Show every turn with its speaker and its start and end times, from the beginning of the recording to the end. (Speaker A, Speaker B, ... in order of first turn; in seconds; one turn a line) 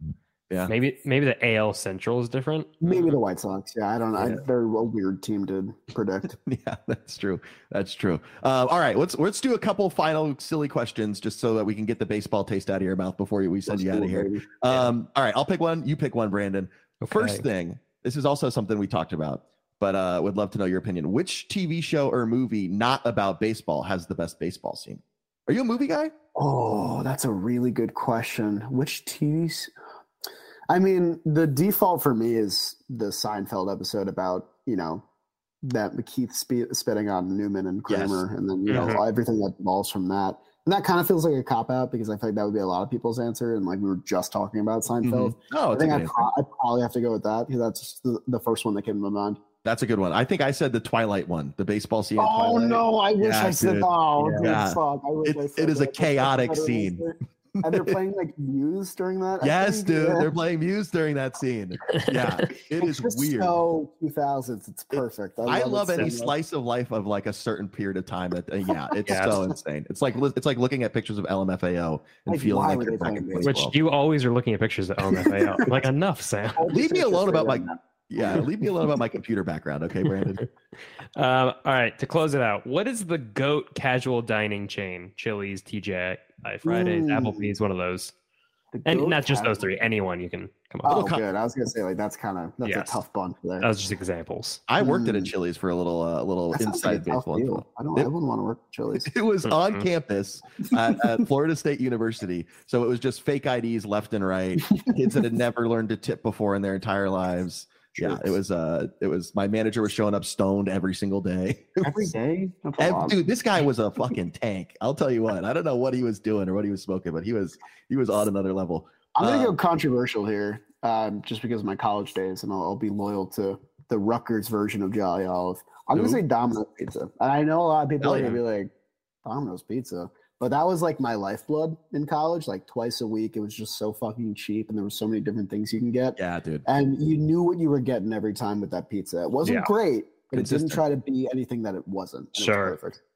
Speaker A: 0.7-3.2
Speaker B: 2.8-6.3
Speaker C: 4.2-4.4
Speaker C: 6.4-26.1
Speaker B: 13.7-14.5
Speaker A: 17.0-17.4
Speaker B: 26.4-29.7
Speaker B: 30.7-35.0
Speaker B: 35.6-49.4
Speaker C: 37.9-38.2
Speaker A: 38.7-39.0
Speaker C: 45.0-46.3
Speaker C: 49.6-57.0
Speaker B: 52.2-60.3
Speaker A: 54.2-54.6
Speaker C: 57.6-58.0
Speaker C: 59.4-63.6
Speaker A: 61.9-62.6
Speaker B: 62.8-66.3
Speaker C: 64.9-73.7
Speaker B: 68.9-69.5
Speaker A: 69.0-69.4
Speaker B: 72.3-73.7
Speaker A: 73.4-76.6
Speaker B: 75.2-75.7
Speaker B: 76.5-78.5
Speaker C: 76.7-80.4
Speaker A: 80.1-80.5
Speaker A: 81.2-88.1
Speaker B: 86.7-87.5
Speaker B: 88.7-89.8
Speaker A: 88.9-91.0
Speaker B: 90.8-93.7
Speaker C: 90.9-91.2
Speaker A: 92.6-93.0
Speaker A: 93.6-94.6
Speaker C: 94.7-98.1
Speaker B: 94.8-95.3
Speaker B: 96.6-99.1
Speaker C: 99.0-112.1
Speaker A: 99.5-99.9
Speaker B: 104.7-105.2
Speaker B: 108.0-108.4
Speaker B: 111.8-113.2
Speaker C: 112.8-119.5
Speaker B: 119.2-128.7
Speaker C: 125.9-126.2
Speaker C: 128.0-128.4
Speaker B: 129.2-143.0
Speaker C: 136.2-136.7
Speaker A: 139.4-139.7
Speaker C: 140.3-140.8
Speaker A: 142.4-142.8